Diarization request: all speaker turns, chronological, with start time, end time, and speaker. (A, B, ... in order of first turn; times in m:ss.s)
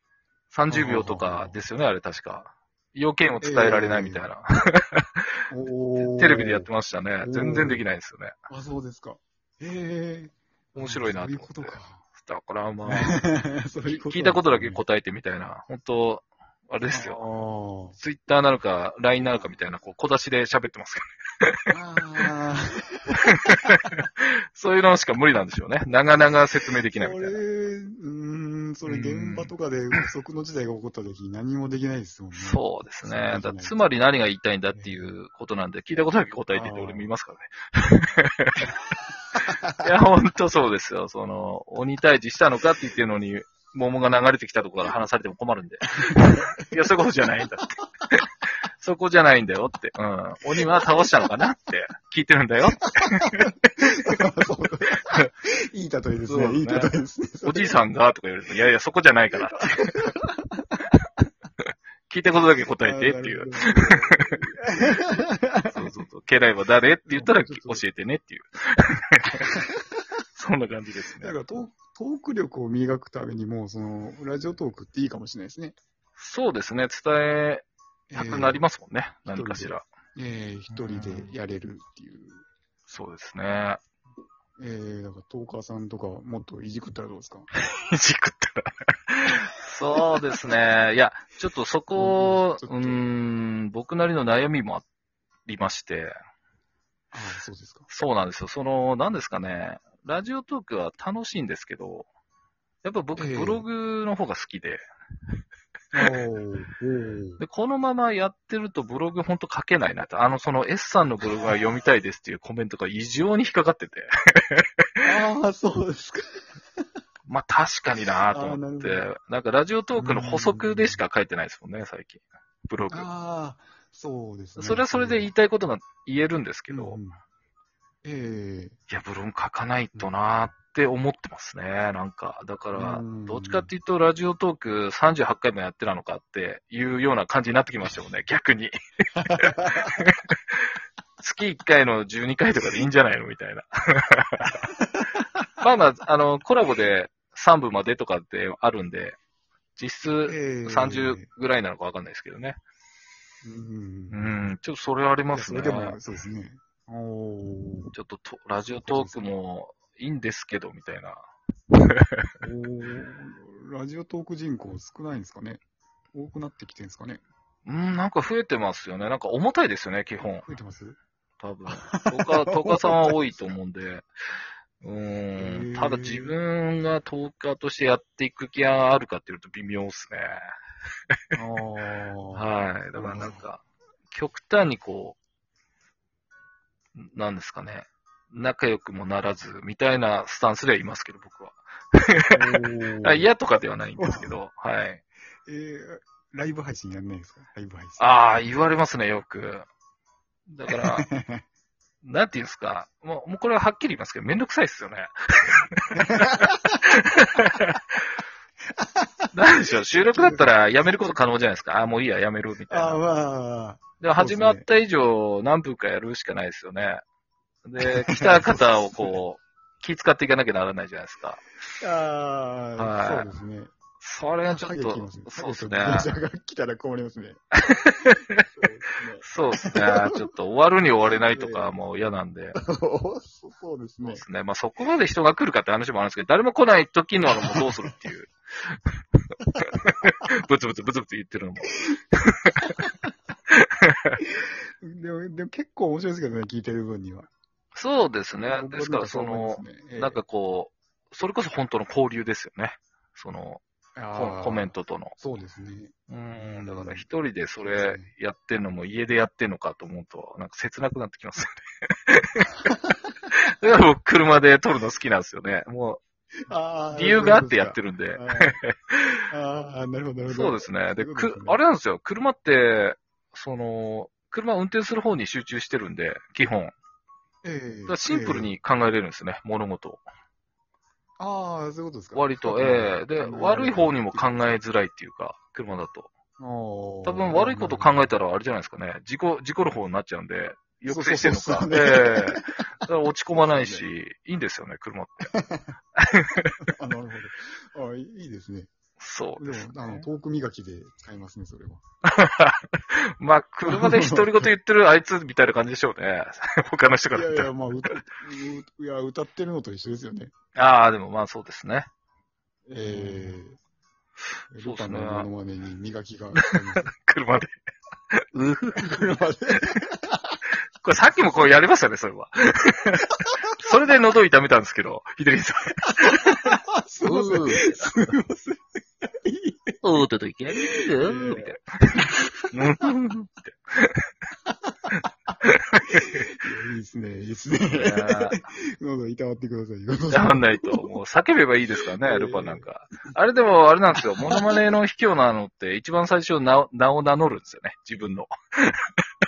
0:00.5-0:05.2 A
0:00.7-0:01.6 B
0:03.4-0:04.3 B
0:05.5-0:06.7 B
0:06.0-0:08.3 A
0:07.2-0:07.8 B
0:08.5-0:12.0 B
0:10.8-0:13.2 A
0:12.8-0:14.8 B
0:13.8-0:17.2 A
0:16.9-0:18.0 B
0:18.0-0:21.7 A
0:21.7-0:23.6 B
0:23.3-0:27.4 A
0:27.0-0:33.8 B
0:28.8-0:29.5 A
0:32.3-0:38.7 A
0:34.8-0:35.2 B
0:36.5-0:37.1 B
0:39.6-0:39.8 B
0:39.8-0:53.9 A
0:46.1-0:46.4 B
0:50.6-0:50.9 B
0:53.0-0:57.8 B
0:56.3-1:00.1 A
0:59.5-1:00.8 B
1:02.1-1:04.4 A
1:02.8-1:05.9 B
1:05.7-1:09.5 A
1:07.0-1:07.8 B
1:09.5-1:09.8 B
1:10.3-1:11.4 A
1:11.2-1:15.8 B
1:16.2-1:19.8 A
1:18.1-1:18.6 B
1:19.3-1:22.4 B
1:20.7-1:21.3 A
1:22.9-1:23.8 A
1:24.6-1:27.5 B
1:27.6-1:34.8 A
1:31.9-1:33.1 B
1:35.4-1:36.1 A
1:37.1-1:37.9 B
1:37.9-1:42.1 A
1:42.8-1:44.8 A
1:43.2-1:43.6 B
1:45.9-1:47.4 B
1:47.4-1:54.8 A
1:55.0-1:56.6 B
1:57.2-2:03.1 A
1:58.0-1:59.0 B
2:00.0-2:01.0 B
2:02.9-2:05.3 B
2:04.6-2:07.0 A
2:06.7-2:07.2 B
2:08.0-2:08.8 B
2:08.9-2:20.6 A
2:12.7-2:13.7 B
2:19.3-2:19.9 B
2:21.2-2:24.7 A
2:24.8-2:25.2 B
2:25.6-2:29.2 A
2:29.8-2:32.6 A
2:30.2-2:31.2 B
2:33.4-2:34.4 B
2:34.1-2:36.0 A
2:35.3-2:37.9 B
2:37.9-2:41.2 A
2:38.6-2:39.4 B
2:41.9-2:42.2 A
2:42.4-2:45.6 B
2:46.1-2:47.2 B
2:47.6-2:50.5 A
2:50.4-2:51.0 B
2:51.4-2:54.1 A
2:51.7-2:53.5 B
2:54.8-3:00.4 A
2:55.4-2:56.4 B
3:01.4-3:03.4 B
3:02.3-3:05.2 A
3:07.0-3:15.0 A
3:12.3-3:13.3 B
3:14.0-3:14.4 B
3:15.4-3:18.1 B
3:18.0-3:19.7 A
3:20.5-3:21.0 A
3:20.7-3:21.4 B
3:22.0-3:27.8 A
3:26.0-3:26.6 B
3:28.8-3:29.3 B
3:29.3-3:33.0 A
3:29.9-3:30.5 B
3:32.7-3:34.7 B
3:34.0-3:37.0 A
3:37.6-3:41.4 A
3:37.8-3:39.2 B
3:41.8-3:43.7 B
3:42.8-3:43.3 A
3:44.0-3:46.1 A
3:44.5-3:47.4 B
3:47.7-3:48.4 A
3:48.4-3:50.2 B
3:49.2-3:52.6 A
3:51.1-3:51.8 B
3:52.6-3:54.2 B
3:54.0-3:58.8 A
3:57.3-3:57.9 B
3:59.6-4:02.8 A
3:59.7-4:00.2 B
4:03.5-4:04.2 A
4:04.8-4:07.3 B
4:07.7-4:13.6 A
4:08.4-4:10.2 B
4:14.0-4:17.0 B
4:14.1-4:15.1 A
4:16.1-4:22.7 A
4:17.6-4:18.1 B
4:22.7-4:22.9 B
4:23.4-4:26.0 A
4:26.5-4:28.6 B
4:26.9-4:29.2 A
4:29.3-4:31.6 B
4:30.2-4:36.7 A
4:37.4-4:38.5 B
4:37.9-4:40.0 A
4:41.2-4:44.6 B
4:42.1-4:46.1 A
4:46.4-4:48.2 B
4:47.0-4:55.3 A
4:50.9-4:52.6 B
4:53.3-4:53.9 B
4:55.3-4:55.7 B
4:56.0-4:56.5 A
4:56.6-4:58.7 B
4:59.0-5:00.1 A
4:59.4-5:01.8 B
5:02.1-5:07.9 A
5:03.7-5:04.5 B
5:07.1-5:10.3 B
5:10.5-5:11.9 A
5:12.7-5:13.6 B
5:12.8-5:13.4 A
5:14.5-5:16.9 B
5:14.6-5:15.3 A
5:16.7-5:17.6 A
5:18.2-5:19.0 A
5:18.8-5:20.4 B
5:20.8-5:28.1 A
5:26.0-5:32.5 B
5:29.8-5:34.0 A
5:35.4-5:36.2 A
5:35.8-5:40.9 B
5:37.7-5:38.4 A
5:40.1-5:48.8 A
5:42.0-5:42.7 B
5:44.2-5:44.6 B